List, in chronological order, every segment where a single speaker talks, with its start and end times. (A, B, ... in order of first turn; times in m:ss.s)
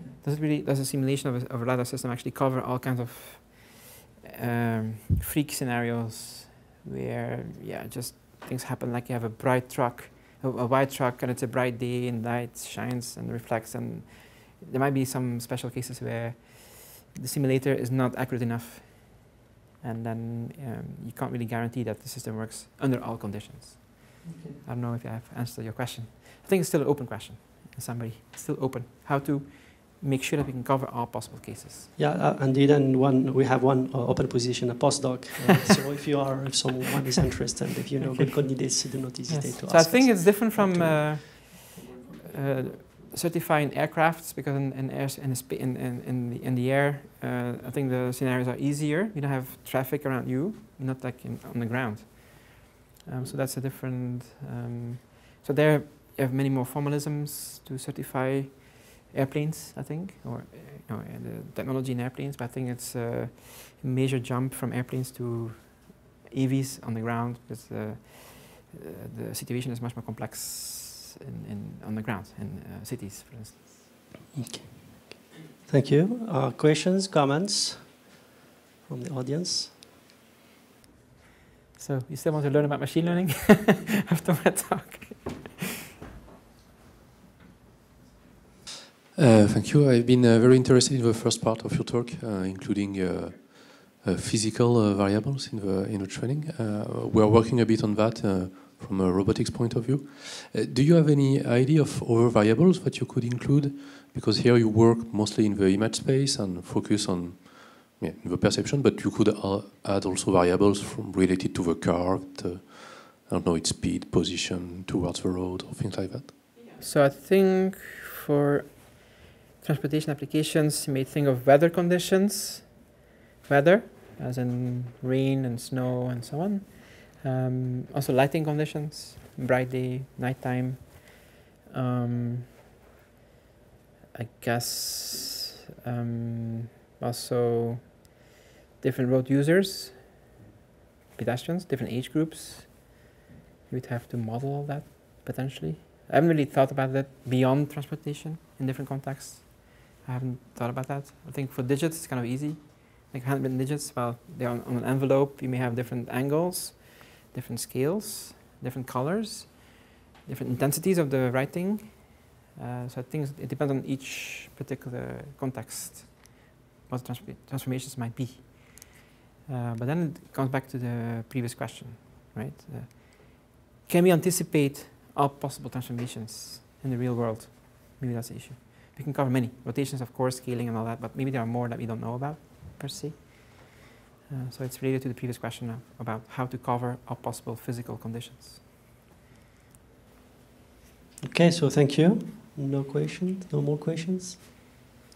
0:00.2-0:31.9 A
0:32.0-0:41.2 B
0:38.0-1:13.9 A
1:14.3-1:18.2 B
1:18.9-1:19.8 B
1:21.8-1:25.6 A
1:29.1-1:56.4 C
1:56.8-2:02.9 A
2:03.4-2:12.5 A
2:14.1-2:18.2 A
2:18.8-2:20.2 A
2:21.2-2:23.0 A
2:23.7-3:08.6 A
3:11.2-3:14.6 B